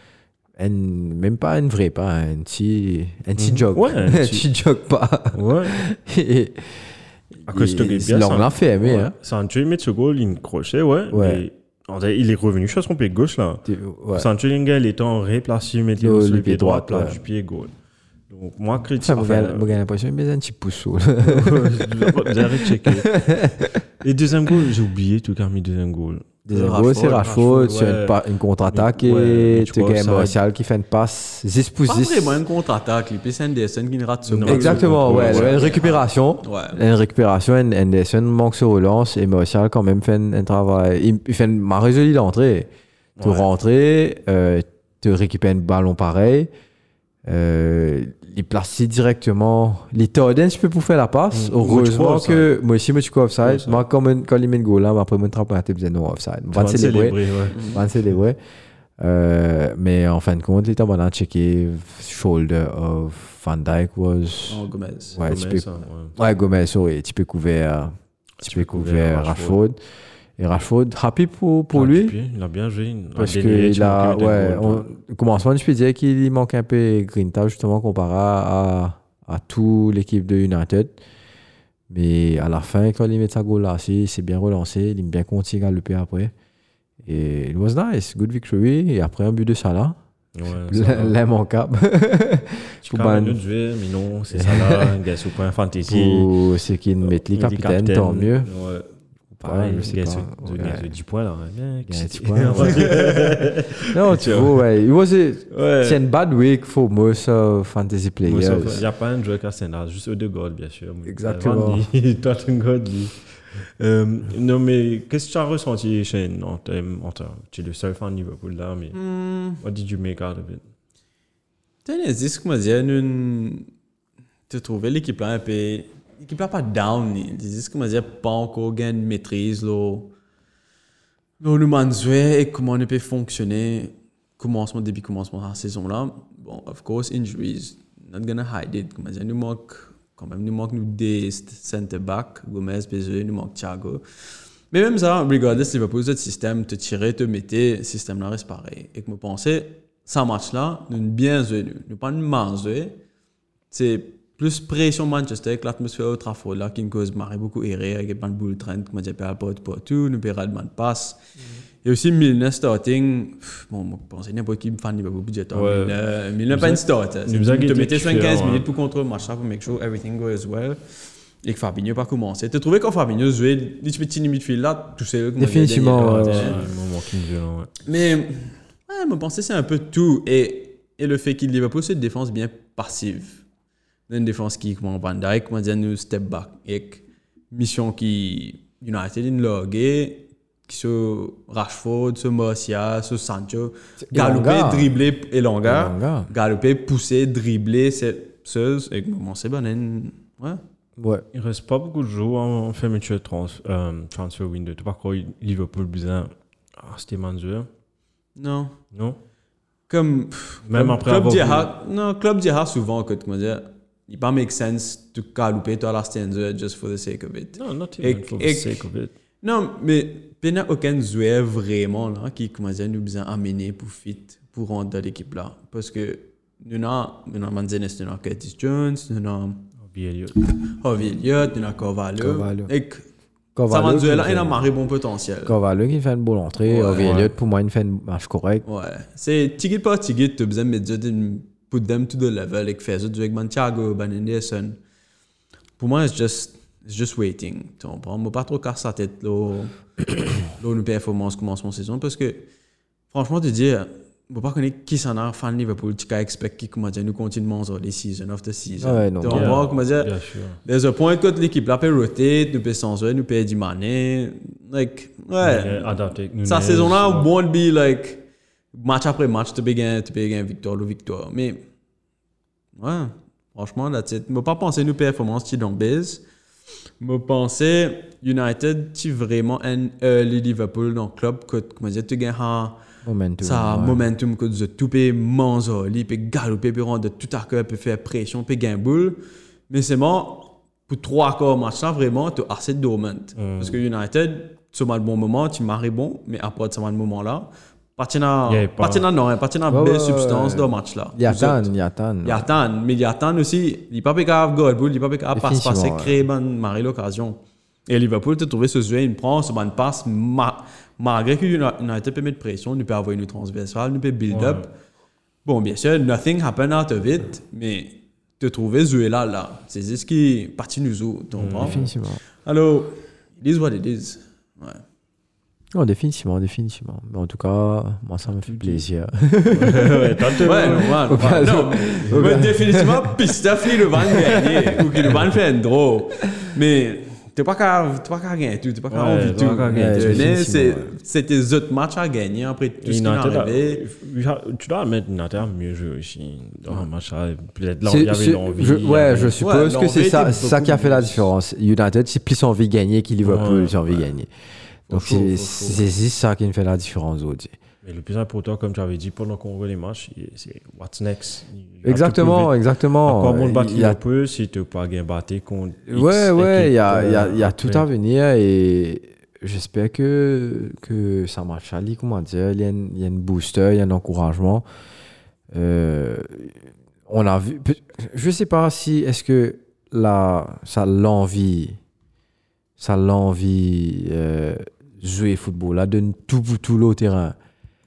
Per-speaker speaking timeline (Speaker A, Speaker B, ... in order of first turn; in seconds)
Speaker A: 0.6-6.8, 7.4-9.1, 11.1-11.4, 13.6-14.3, 16.0-17.2, 19.0-23.8, 26.4-32.4, 34.4-42.7, 43.2-46.5, 47.2-57.2, 57.7-58.4, 59.0-64.6, 65.2-69.8, 70.4-72.1, 73.2-80.9, 81.9-86.3, 87.0-90.0, 90.7-93.4, 94.3-95.0, 95.8-98.5, 99.4-100.9, 101.9-103.3, 103.9-108.8, 111.1-111.9, 175.4-176.5, 194.0-194.9, 195.6-196.3, 201.0-201.2, 232.2-232.7, 233.5-234.6, 235.4-238.6, 258.8-259.6, 283.0-284.1, 299.7-302.5, 305.3-306.1, 321.6-322.2, 325.7-335.1, 339.7-340.9, 347.9-354.3, 354.9-357.5, 361.8-364.0, 365.9-374.6, 375.5-381.8, 382.8-387.4
Speaker B: 3.4-4.5, 5.3-5.8, 7.5-17.7, 18.3-19.7, 21.2-23.4, 24.0-26.4, 27.0-30.4, 34.3-35.8, 43.2-43.5, 51.3-52.5, 53.4-53.8, 56.5-58.1, 65.2-66.1, 68.4-69.6, 71.7-74.9, 90.3-91.2, 92.8-96.3, 97.0-104.6, 105.5-106.0, 108.2-119.0, 119.6-120.6, 165.5-166.0, 166.5-168.7, 175.9-177.7, 201.3-207.7, 208.9-209.2, 210.6-211.7, 217.5-219.1, 229.8-230.4, 236.9-237.3, 259.3-260.6, 265.4-267.3, 293.4-293.8, 298.5-299.1, 314.3-314.6, 321.4-321.9, 328.4-328.8, 329.4-331.4, 332.0-332.5, 338.9-340.3, 342.8-349.3, 353.2-354.1, 354.9-355.9, 357.8-367.9
Speaker C: 26.5-27.3, 31.9-36.8, 57.5-57.8, 64.5-65.2, 118.9-119.6, 121.8-123.7, 124.5-130.1, 131.4-144.0, 144.7-153.0, 153.7-161.2, 161.8-170.8, 171.4-176.7, 177.8-183.4, 184.1-200.6, 208.3-208.8, 209.9-218.8, 219.4-229.7, 230.5-233.1, 233.7-235.6, 236.6-237.2, 238.6-244.8, 245.8-252.5, 253.1-260.1, 260.6-271.6, 272.7-276.2, 277.0-282.8, 283.4-301.7, 302.2-314.7, 315.4-324.8, 330.4-343.8, 349.4-351.3